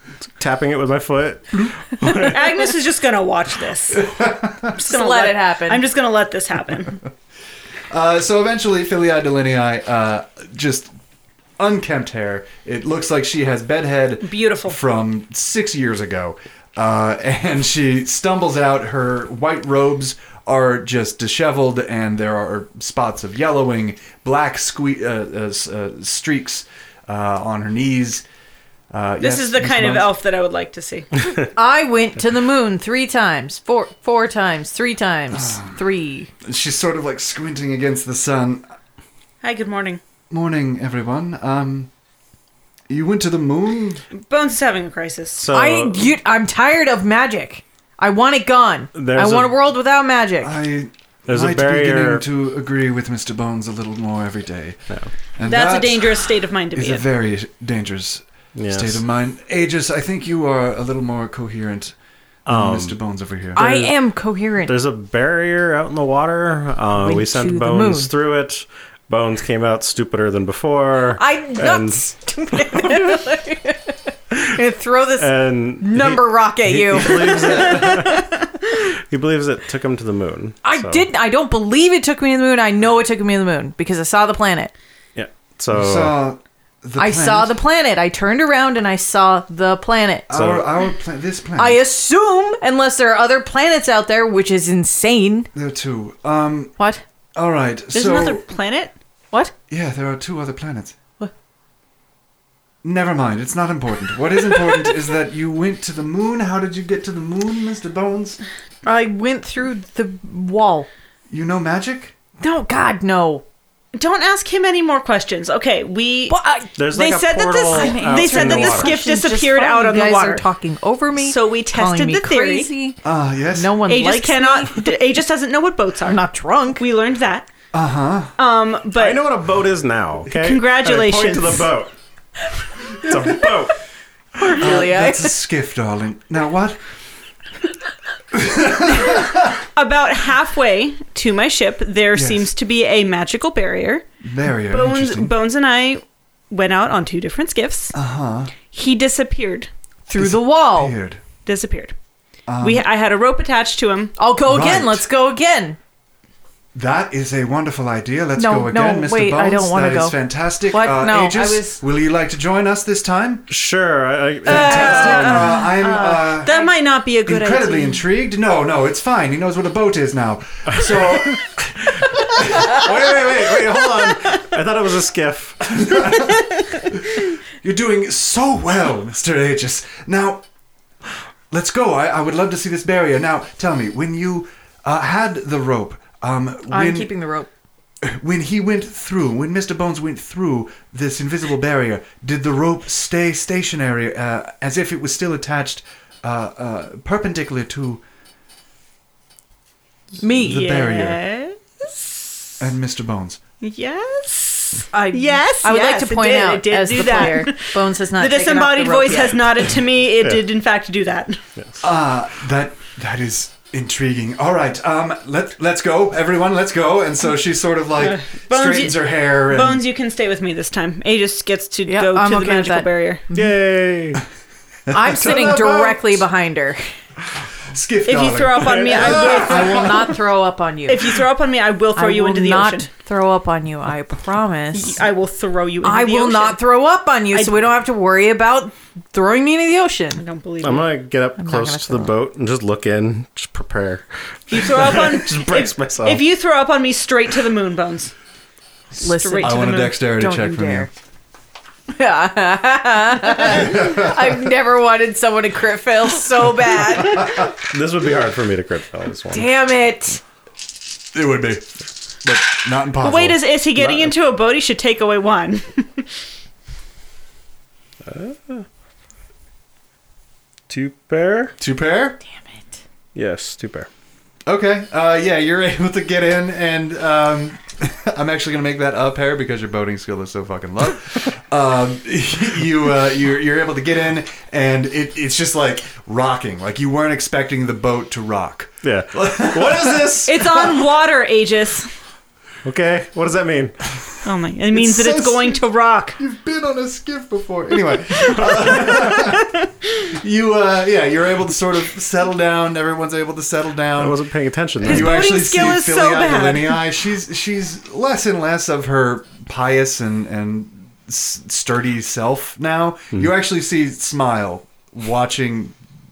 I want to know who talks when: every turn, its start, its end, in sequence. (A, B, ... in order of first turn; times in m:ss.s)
0:00.4-0:02.7 A
0:02.1-0:07.0 B
0:03.9-0:04.7 C
0:04.8-0:05.8 D
0:07.9-0:10.9 C
0:11.6-0:28.2 C
0:14.2-0:14.8 B
0:28.9-0:30.1 C
0:29.2-0:31.1 B
0:31.5-0:36.3 D
0:35.3-0:35.8 C
0:36.4-0:38.6 C
0:39.4-0:40.0 B
0:40.3-0:41.9 C
0:42.9-0:44.0 C
0:44.1-0:45.4 B
0:45.4-0:46.1 A
0:45.5-0:50.5 D
0:48.9-0:49.6 A
0:50.4-0:54.8 C
0:51.3-0:52.2 A
0:55.4-0:56.2 C
0:55.4-0:57.0 B
0:56.7-1:03.9 C
0:58.6-0:59.0 A
1:02.4-1:03.0 A
1:03.6-1:04.7 D
1:04.6-1:12.0 A
1:07.0-1:08.1 D
1:11.2-1:18.1 D
1:12.7-1:13.0 A
1:15.2-1:21.0 A
1:17.8-1:18.1 B
1:20.6-1:24.7 D
1:25.2-1:26.2 A
1:25.7-1:27.6 C
1:27.0-1:30.3 D
1:30.3-1:31.8 C
1:30.3-1:30.7 A
1:31.6-1:35.5 D
1:35.5-1:36.7 C
1:36.8-1:37.0 D
1:37.3-1:38.4 C
1:37.9-1:38.9 B
1:39.7-1:41.0 C
1:42.8-1:48.4 C
1:48.8-1:50.9 D
1:51.3-1:52.1 C
1:52.4-1:53.4 D
1:53.9-1:56.4 B
1:56.3-1:56.7 D
1:56.8-1:59.0 A
1:56.9-2:00.4 B
1:57.7-2:03.0 D
2:01.2-2:02.7 B
2:03.0-2:03.8 C
2:03.5-2:04.9 D
2:03.9-2:06.2 B
2:06.0-2:06.8 D
2:06.8-2:07.5 B
2:07.7-2:08.3 C
2:08.4-2:09.3 B
2:09.0-2:11.9 A
2:10.3-2:11.7 B
2:12.8-2:13.8 A
2:14.4-2:15.4 D
2:14.6-2:16.8 C
2:18.3-2:19.6 C
2:19.7-2:24.0 B
2:22.1-2:22.5 C
2:24.2-2:25.3 C
2:24.7-2:27.9 B
2:27.9-2:28.5 C
2:28.7-2:29.7 B
2:30.1-2:30.9 D
2:30.1-2:31.2 C
2:31.4-2:31.9 B
2:32.5-2:32.8 C
2:32.6-2:34.1 B
2:34.2-2:35.8 D
2:34.4-2:35.0 C
2:36.7-2:43.5 C
2:38.4-2:41.8 D
2:43.5-2:45.5 A
2:44.4-2:46.5 C
2:44.4-2:48.0 B
2:45.2-2:46.7 D
2:47.2-2:54.3 C
2:50.9-2:51.3 A
2:52.4-2:56.1 A
2:55.6-3:00.4 C
3:01.5-3:07.1 C
3:06.7-3:07.5 D
3:08.0-3:18.0 C
3:20.2-3:20.6 D
3:20.3-3:21.2 C
3:20.4-3:22.6 B
3:22.6-3:23.4 C
3:23.6-3:31.4 B
3:24.9-3:29.6 D
3:31.8-3:39.8 C
3:38.0-3:43.2 B
3:41.9-3:43.4 D
3:43.3-3:44.2 A
3:44.9-3:46.2 C
3:44.9-3:46.8 D
3:47.7-3:50.0 C
3:48.0-3:50.1 B
3:49.0-3:51.1 D
3:50.9-3:52.9 B
3:52.0-3:55.0 D
3:54.7-3:56.7 B
3:55.8-4:00.2 D
3:57.3-3:57.6 B
4:00.2-4:00.9 B
4:00.6-4:06.2 A
4:01.4-4:02.1 D
4:04.5-4:08.1 B
4:08.9-4:10.9 D
4:09.0-4:10.0 B
4:09.4-4:10.9 C
4:11.9-4:17.5 D
4:13.5-4:14.2 C
4:17.3-4:19.5 A
4:19.3-4:20.2 D
4:21.1-4:21.7 C
4:22.2-4:23.4 C
4:23.0-4:26.1 B
4:23.8-4:24.1 A
4:28.0-4:28.6 A
4:30.7-4:31.5 A
4:31.6-4:32.2 C
4:32.3-4:32.8 D
4:33.1-4:33.9 A
4:34.4-4:50.9 C
4:48.8-4:50.3 A
4:50.3-4:51.9 B
4:52.6-4:53.8 A
4:54.2-4:56.2 B
4:54.7-4:55.6 C
4:56.2-5:04.1 C
4:59.2-4:59.4 B
5:04.0-5:05.3 A
5:04.8-5:06.8 B
5:04.8-5:15.8 C